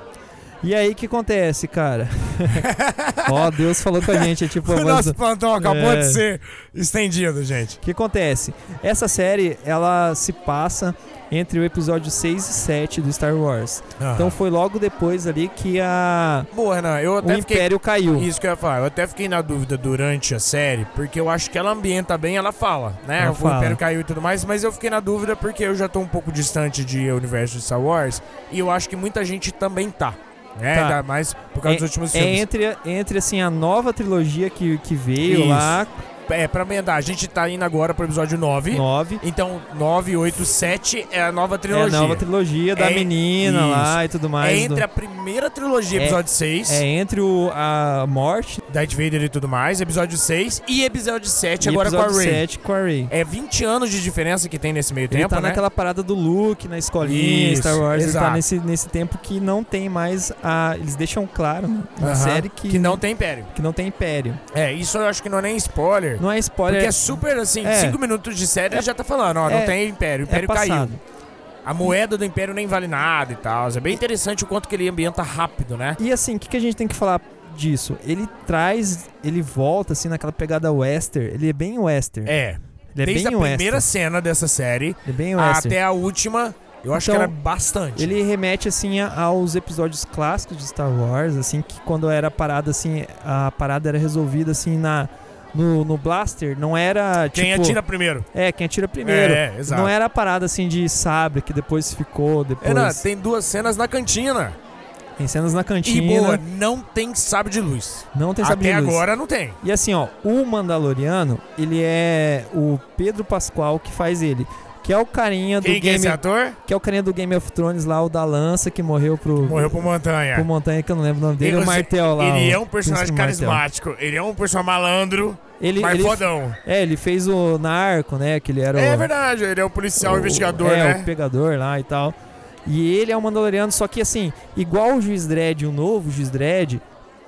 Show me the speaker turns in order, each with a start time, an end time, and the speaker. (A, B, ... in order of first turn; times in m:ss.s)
0:00.6-0:02.7 A
0:02.5-0:07.8 B
0:03.2-0:06.2 A
0:07.8-0:16.5 A
0:14.0-0:14.4 B
0:16.5-0:32.4 B
0:17.2-0:18.3 A
0:23.2-0:23.8 A
0:30.7-0:31.0 A
0:31.6-0:36.0 A
0:35.2-0:42.2 B
0:38.7-0:39.2 A
0:41.7-0:44.8 A
0:42.8-0:46.8 B
0:45.9-0:48.6 A
0:48.7-0:52.4 B
0:51.6-0:53.1 A
0:53.1-0:55.6 B
0:55.1-1:04.4 A
0:57.0-0:58.4 B
1:02.0-1:03.5 B
1:04.5-1:11.0 B
1:06.2-1:08.0 A
1:09.5-1:11.0 A
1:11.6-1:16.0 B
1:16.0-1:22.4 A
1:22.2-1:28.2 B
1:23.0-1:23.9 A
1:25.0-1:25.8 A
1:26.9-1:27.3 A
1:28.0-1:37.8 A
1:37.3-1:38.3 B
1:38.3-1:43.0 A
1:39.0-1:39.9 B
1:42.6-1:44.6 B
1:45.2-1:46.4 A
1:45.8-1:49.6 B
1:48.1-1:49.0 A
1:49.6-2:03.6 A
1:55.6-1:56.6 B
1:59.4-2:00.5 B
2:01.4-2:06.6 B
2:05.6-2:09.1 A
2:08.7-2:11.1 B
2:10.0-2:12.1 A
2:12.7-2:16.8 A